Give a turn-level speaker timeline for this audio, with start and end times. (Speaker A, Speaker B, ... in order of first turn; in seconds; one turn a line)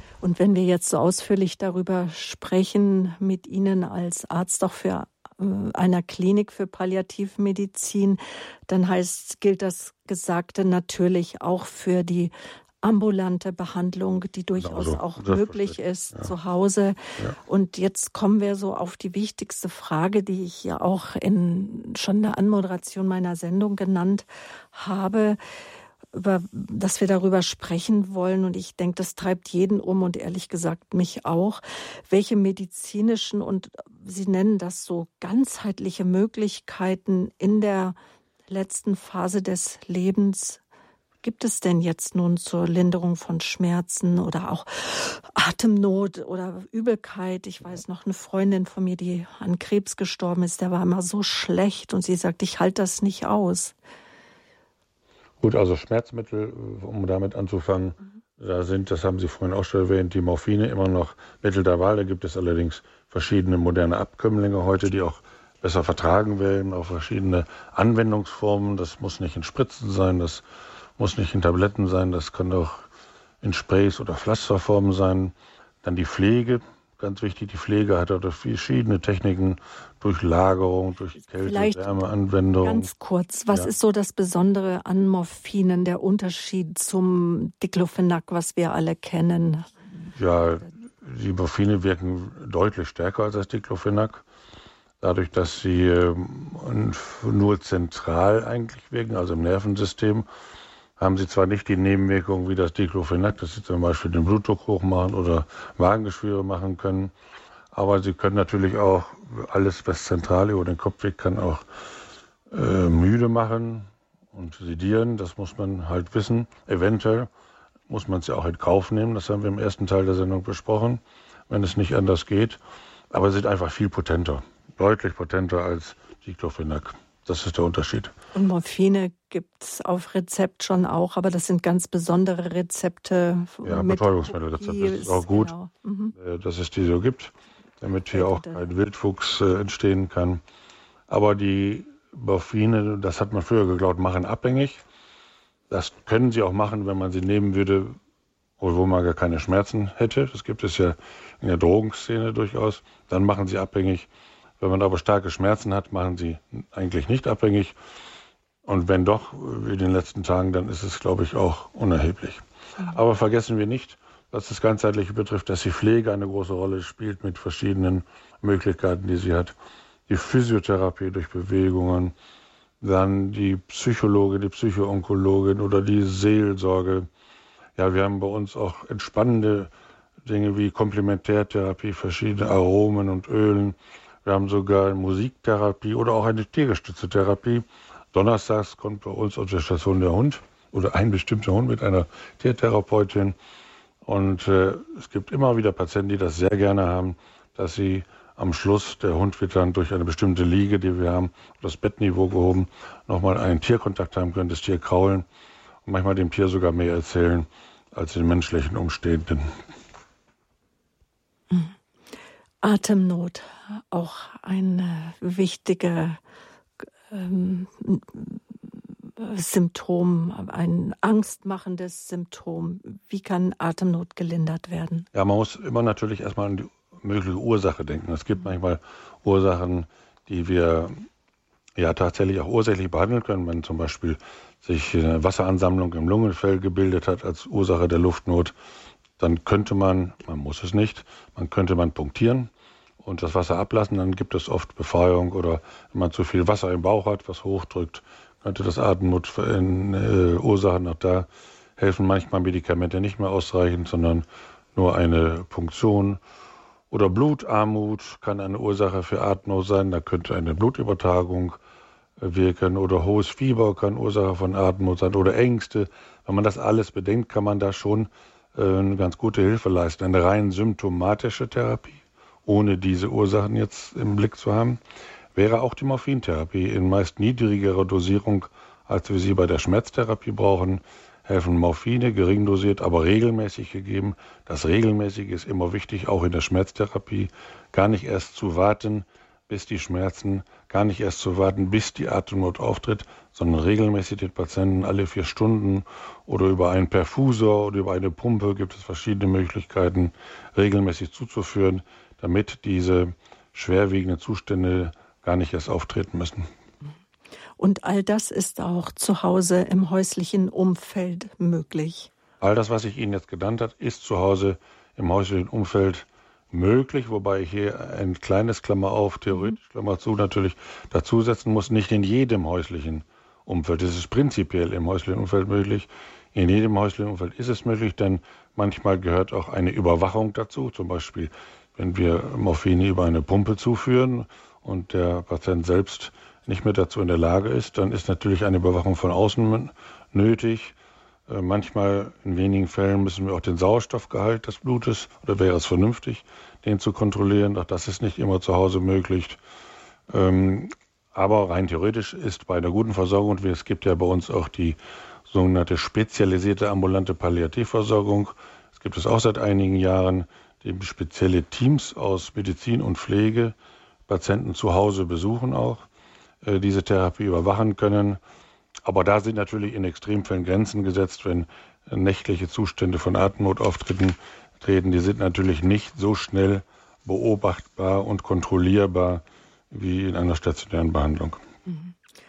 Speaker A: 0.2-25.4
Speaker B: 14.6-16.3
Speaker A: 26.1-38.0
Speaker A: 38.5-40.6
Speaker A: 41.2-53.7
Speaker B: 55.4-70.4
Speaker B: 71.0-72.9
Speaker B: 73.4-82.9
Speaker A: 81.4-81.9
Speaker A: 82.6-89.7
Speaker B: 90.1-94.2
Speaker B: 95.0-100.3
Speaker B: 101.0-107.1
Speaker B: 107.7-111.6
Speaker B: 112.5-117.3
Speaker B: 117.9-122.6
Speaker B: 123.1-128.2
Speaker A: 128.3-136.1
Speaker B: 133.6-135.5
Speaker B: 136.1-140.4
Speaker A: 138.1-138.6
Speaker B: 141.1-144.8
Speaker B: 145.7-148.0
Speaker B: 148.6-154.1
Speaker B: 154.6-157.7
Speaker B: 158.6-169.5
Speaker B: 170.1-172.1
Speaker B: 172.8-177.1
Speaker B: 177.8-179.7
Speaker B: 180.2-193.3
Speaker B: 194.0-205.2
Speaker B: 205.8-209.6
Speaker A: 212.6-216.2
Speaker A: 216.8-225.1
Speaker B: 225.1-230.9
Speaker B: 231.8-238.5
Speaker B: 239.2-242.5
Speaker B: 243.0-256.2
Speaker B: 256.9-261.6
Speaker B: 262.2-274.8
Speaker B: 275.3-306.5
Speaker A: 307.6-312.1
Speaker B: 312.4-340.7
Speaker B: 341.3-349.4
Speaker B: 350.1-363.5
Speaker B: 364.1-365.8
Speaker B: 366.4-368.2
Speaker B: 368.8-381.4
Speaker A: 381.7-381.9